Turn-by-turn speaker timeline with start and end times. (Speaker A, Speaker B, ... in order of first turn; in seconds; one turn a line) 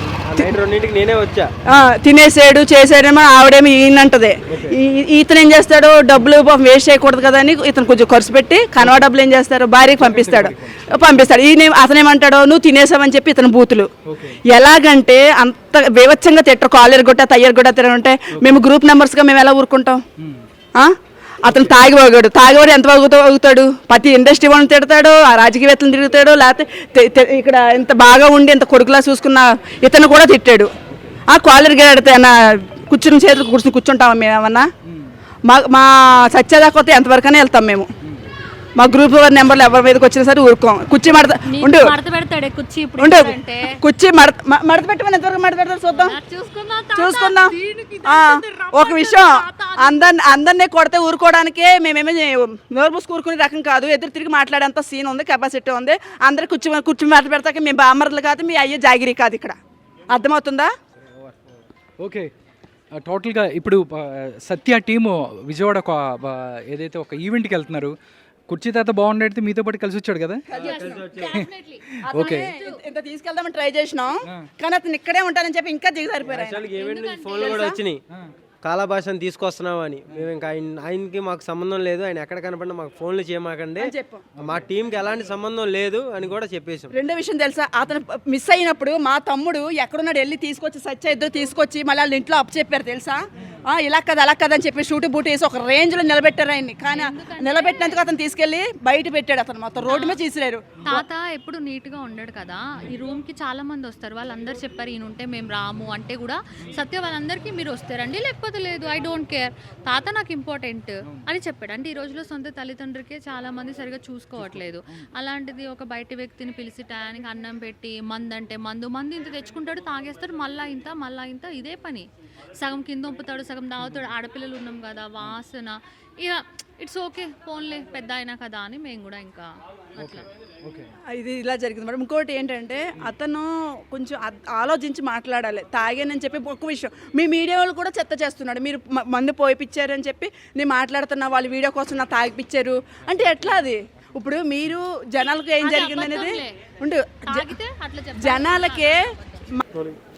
Speaker A: 0.3-1.5
Speaker B: 1.7-13.9
Speaker C: 4.5-4.8
Speaker C: 10.0-11.3
Speaker C: 14.1-14.4
Speaker B: 14.5-20.0
Speaker C: 18.3-18.6
Speaker C: 20.2-20.5
Speaker C: 21.4-21.8
Speaker B: 21.4-30.7
Speaker C: 30.9-31.1
Speaker B: 31.3-34.7
Speaker C: 34.9-35.1
Speaker B: 35.5-37.9
Speaker C: 38.0-38.3
Speaker B: 38.8-41.9
Speaker D: 41.5-43.8
Speaker B: 43.0-46.2
Speaker D: 45.9-50.1
Speaker B: 47.0-59.6
Speaker B: 60.1-60.7
Speaker A: 61.0-61.5
Speaker C: 62.0-62.3
Speaker C: 62.9-68.0
Speaker C: 68.5-70.4
Speaker A: 70.5-71.4
Speaker D: 70.5-71.8
Speaker B: 70.6-71.2
Speaker C: 71.2-72.5
Speaker B: 72.1-76.6
Speaker D: 72.5-72.8
Speaker A: 76.3-78.0
Speaker D: 76.7-77.7
Speaker B: 77.4-77.8
Speaker A: 78.6-86.9
Speaker B: 83.8-84.3
Speaker B: 86.9-101.0
Speaker D: 96.9-98.1
Speaker D: 99.8-100.2
Speaker D: 100.8-130.3
Speaker C: 114.4-114.7
Speaker C: 130.0-130.9
Speaker B: 131.1-147.5
Speaker D: 145.6-146.5
Speaker D: 147.3-149.4
Speaker B: 148.2-149.0
Speaker B: 149.5-149.9